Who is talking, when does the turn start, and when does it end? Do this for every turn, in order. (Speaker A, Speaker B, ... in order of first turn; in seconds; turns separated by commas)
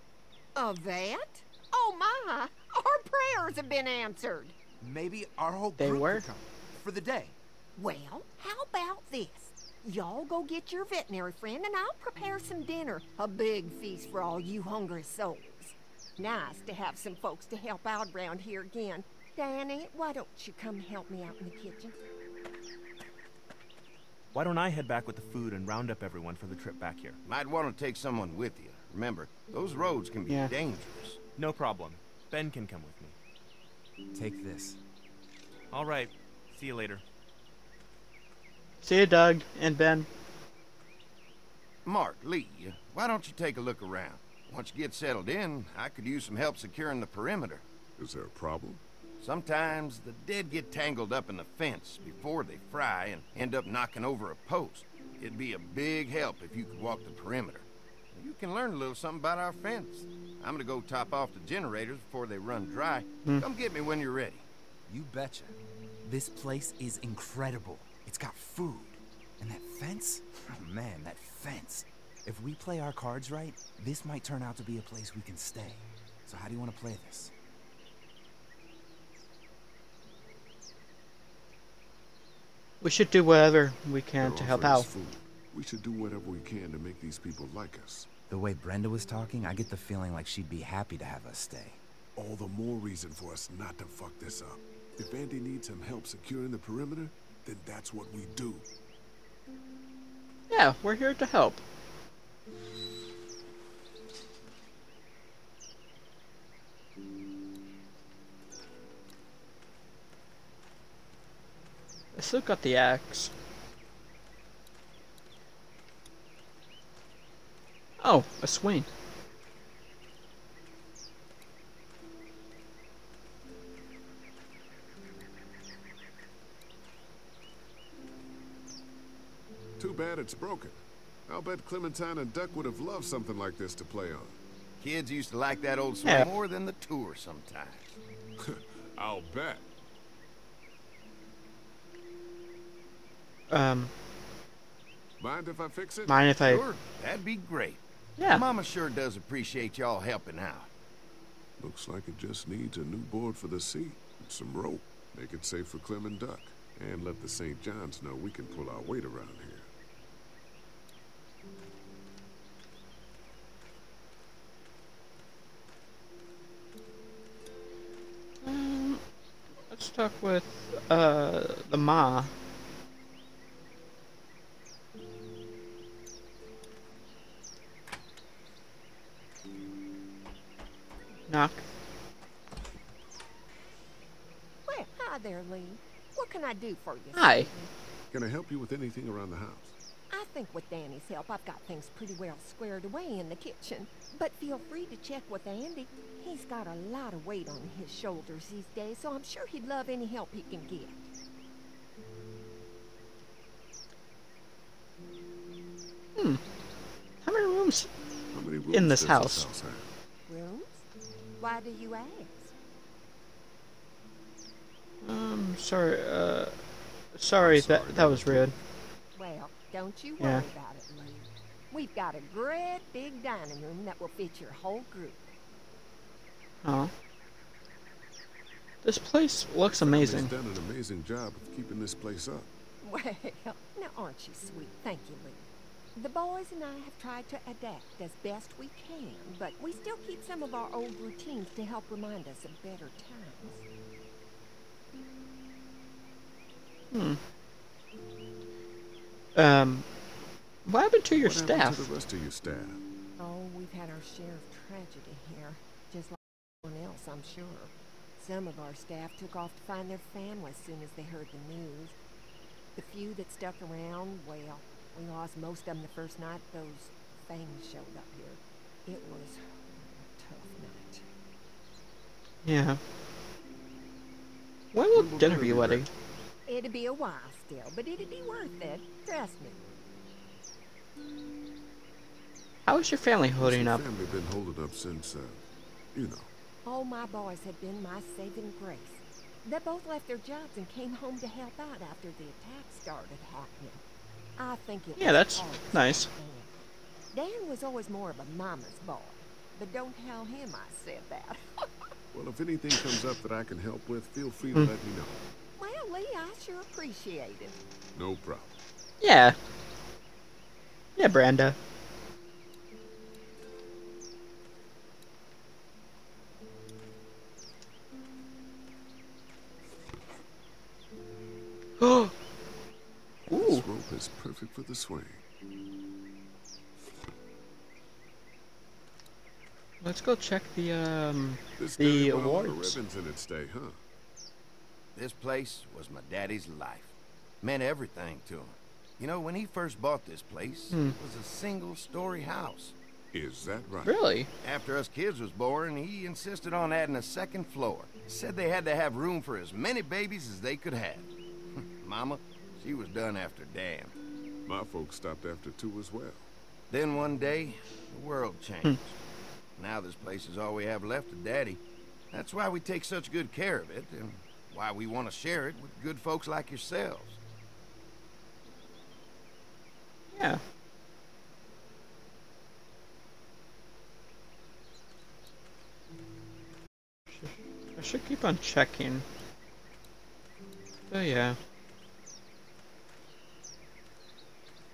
Speaker A: 0.5-4.5, Speaker B: 4.8-7.3, Speaker C: 5.8-6.2, Speaker A: 7.8-21.9, Speaker D: 24.3-27.2, Speaker E: 27.2-31.2, Speaker C: 30.3-30.5, Speaker D: 31.4-33.1, Speaker B: 34.1-34.8, Speaker D: 35.7-37.0, Speaker C: 38.8-40.1, Speaker E: 41.8-47.6, Speaker F: 48.0-48.8, Speaker E: 49.2-64.4, Speaker B: 64.9-77.3, Speaker C: 82.8-84.9, Speaker F: 84.2-88.1, Speaker B: 88.3-91.8, Speaker F: 92.2-98.7, Speaker C: 100.5-101.6, Speaker C: 112.1-113.3, Speaker C: 118.0-118.9, Speaker F: 129.8-134.4, Speaker E: 134.8-138.0, Speaker C: 136.0-136.3, Speaker F: 138.4-139.6, Speaker C: 143.5-143.9, Speaker F: 145.2-146.6, Speaker C: 146.1-146.6, Speaker E: 146.5-150.7, Speaker C: 148.2-148.4, Speaker F: 151.6-159.7, Speaker C: 168.4-169.0, Speaker C: 169.7-172.3, Speaker C: 181.3-181.6, Speaker A: 184.7-187.7, Speaker C: 187.1-187.5, Speaker F: 188.1-189.7, Speaker A: 190.1-201.1, Speaker C: 207.2-207.9, Speaker F: 208.3-209.9, Speaker C: 208.7-209.4, Speaker A: 210.3-210.8, Speaker A: 211.4-212.5, Speaker C: 215.0-216.5, Speaker C: 217.1-218.5, Speaker F: 217.4-218.5, Speaker A: 219.1-225.3, Speaker C: 220.2-220.4, Speaker C: 226.6-226.9, Speaker C: 228.8-230.3, Speaker F: 229.7-232.5, Speaker A: 232.8-243.6, Speaker C: 246.9-247.2, Speaker C: 249.3-249.8, Speaker C: 250.7-251.9, Speaker F: 251.1-252.8, Speaker A: 253.2-261.9, Speaker A: 262.7-271.0, Speaker C: 272.4-272.8, Speaker C: 274.7-275.9, Speaker F: 274.9-275.9, Speaker A: 276.5-279.6, Speaker C: 282.6-283.8, Speaker F: 283.4-285.4, Speaker F: 285.9-286.3, Speaker A: 286.6-293.8, Speaker A: 294.4-296.6, Speaker C: 295.0-296.1, Speaker A: 297.1-301.6, Speaker F: 302.1-305.2, Speaker A: 305.6-307.6, Speaker F: 307.9-308.5, Speaker C: 309.0-309.4, Speaker C: 311.0-311.6, Speaker C: 321.8-322.1, Speaker C: 323.3-323.6, Speaker F: 323.4-325.2, Speaker C: 329.8-332.8, Speaker F: 331.6-333.8, Speaker E: 334.9-342.7, Speaker C: 340.7-341.0, Speaker F: 343.1-344.0, Speaker C: 343.8-344.3, Speaker E: 344.4-353.9, Speaker F: 354.4-356.3, Speaker E: 356.7-358.9, Speaker E: 359.6-361.6, Speaker E: 362.1-367.2, Speaker C: 370.1-370.4, Speaker C: 377.1-379.0, Speaker C: 380.9-381.4